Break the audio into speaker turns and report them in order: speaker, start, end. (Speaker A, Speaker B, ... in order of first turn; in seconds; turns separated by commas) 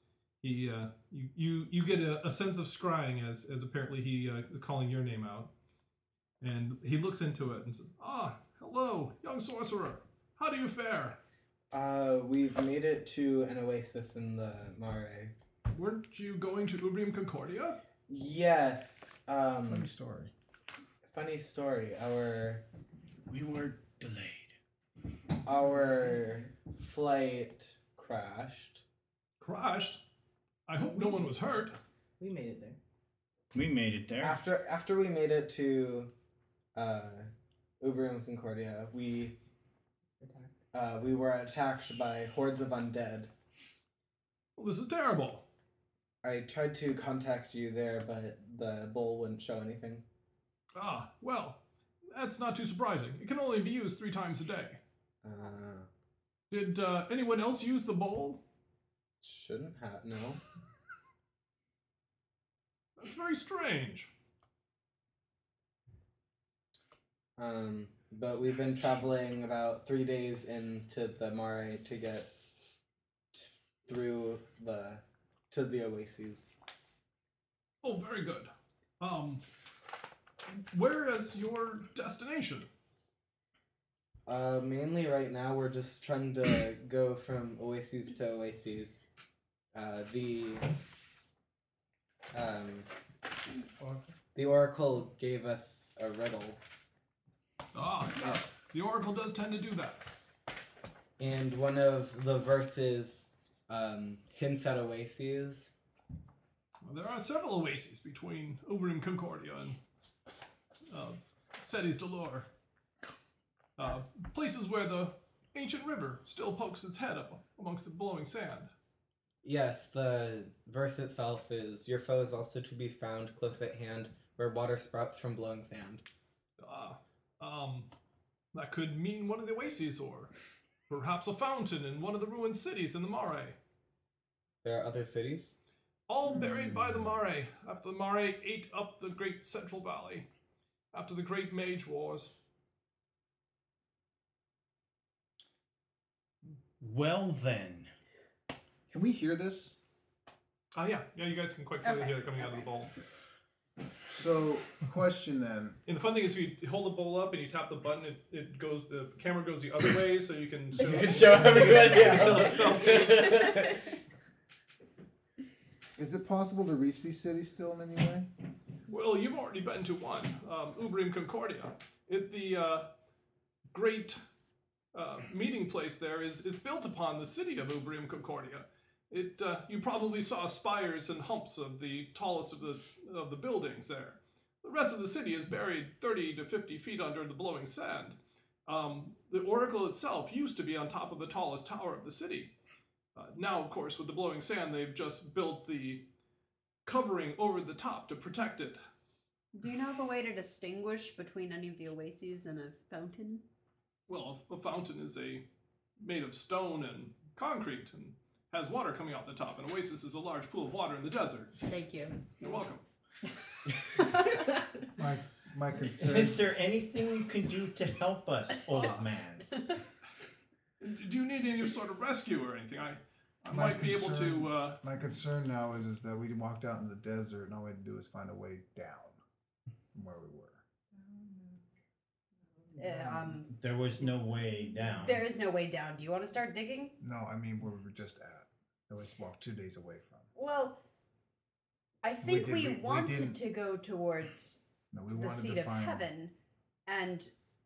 Speaker A: 0.4-5.5, Speaker A: 6.4-11.2, Speaker B: 11.7-15.3, Speaker A: 15.7-17.8, Speaker B: 18.1-19.9, Speaker C: 19.7-20.3, Speaker B: 21.1-22.6, Speaker D: 23.3-24.6, Speaker B: 25.4-28.8, Speaker A: 29.4-30.0, Speaker A: 30.7-31.8, Speaker E: 32.2-32.8, Speaker D: 33.5-34.4, Speaker B: 34.2-36.1, Speaker B: 36.8-39.4, Speaker E: 40.2-40.5, Speaker B: 40.7-43.3, Speaker A: 44.6-45.5, Speaker B: 46.2-50.0, Speaker A: 50.8-51.6, Speaker A: 52.1-54.8, Speaker B: 55.2-55.9, Speaker A: 56.5-58.4, Speaker B: 59.2-60.4, Speaker A: 63.0-64.1, Speaker B: 67.4-72.3, Speaker B: 73.3-76.5, Speaker A: 77.8-79.4, Speaker A: 80.6-82.7, Speaker B: 84.3-89.0, Speaker B: 89.7-90.7, Speaker B: 92.3-92.9, Speaker B: 94.3-96.6, Speaker A: 97.7-100.1, Speaker B: 98.2-98.4, Speaker B: 101.2-105.7, Speaker A: 106.8-109.8, Speaker A: 110.9-112.5, Speaker A: 113.8-118.7, Speaker B: 119.4-126.0, Speaker A: 126.6-127.9, Speaker A: 128.5-130.3, Speaker A: 130.9-133.6, Speaker B: 134.6-135.6, Speaker A: 136.1-140.3, Speaker A: 140.9-142.3, Speaker D: 146.8-147.9, Speaker C: 148.9-149.8, Speaker A: 150.7-152.9, Speaker F: 151.8-152.7, Speaker C: 154.1-155.8, Speaker A: 155.9-163.7, Speaker B: 160.8-163.8, Speaker E: 162.0-162.6, Speaker C: 166.0-168.3, Speaker A: 168.9-172.9, Speaker A: 173.7-174.2, Speaker A: 174.9-192.5, Speaker A: 193.2-196.1, Speaker A: 196.9-198.8, Speaker F: 199.5-203.4, Speaker A: 204.1-205.4, Speaker A: 206.0-211.6, Speaker F: 211.7-212.3, Speaker A: 212.4-212.8, Speaker F: 214.0-214.4, Speaker C: 215.0-216.4, Speaker D: 216.0-219.5, Speaker A: 220.8-224.8, Speaker C: 223.5-229.2, Speaker C: 229.9-230.6, Speaker E: 230.9-231.6, Speaker F: 232.8-233.5, Speaker D: 233.5-235.2, Speaker F: 235.0-237.0, Speaker C: 237.0-240.3, Speaker F: 240.3-240.8, Speaker F: 242.0-244.6, Speaker C: 242.2-243.4, Speaker C: 244.9-246.1, Speaker F: 245.1-246.3, Speaker F: 246.9-247.3